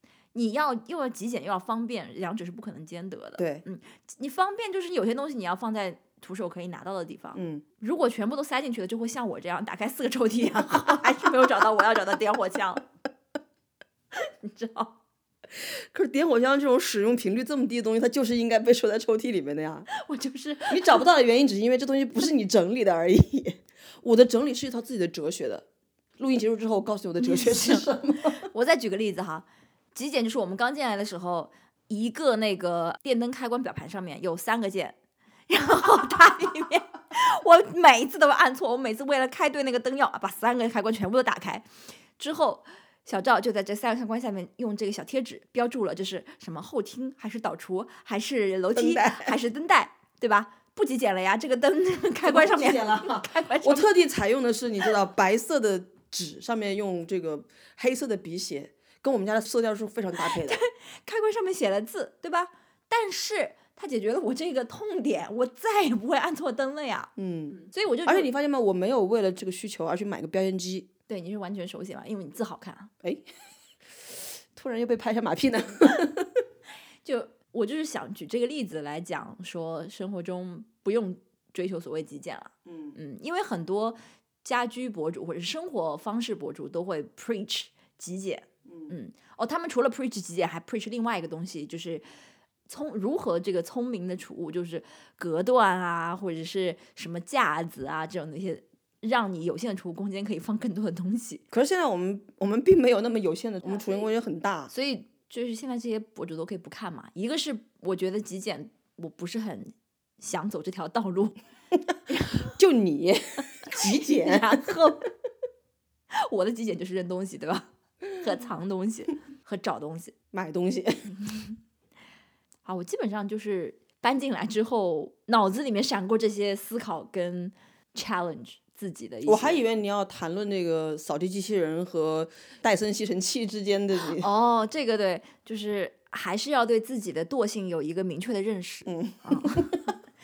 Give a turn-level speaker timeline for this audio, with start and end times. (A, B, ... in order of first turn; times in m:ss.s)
0:00.3-0:12.8 A
0:03.4-0:03.6 B
0:07.4-0:07.6 B
0:14.1-0:15.0 A
0:15.6-0:19.9 B
0:19.9-0:21.0 A
0:20.7-0:25.6 B
0:26.2-0:28.4 B
0:27.2-0:35.0 A
0:35.5-0:41.6 A
0:42.2-0:53.9 A
0:48.7-0:49.4 B
0:52.2-1:00.6 B
1:00.2-1:08.3 A
1:07.2-1:10.9 B
1:11.1-1:12.9 A
1:13.0-1:13.3 B
1:14.0-1:16.4 B
1:17.0-1:32.0 A
1:22.6-1:23.0 B
1:28.7-1:28.9 B
1:32.7-1:41.4 A
1:41.5-1:44.7 B
1:44.7-1:51.4 A
1:52.1-1:52.5 A
1:52.4-1:54.6 B
1:53.7-1:55.1 A
1:56.1-2:00.1 A
2:00.3-2:01.1 B
2:02.6-2:09.6 A
2:09.2-2:14.3 B
2:14.0-2:19.8 A
2:18.9-2:19.7 B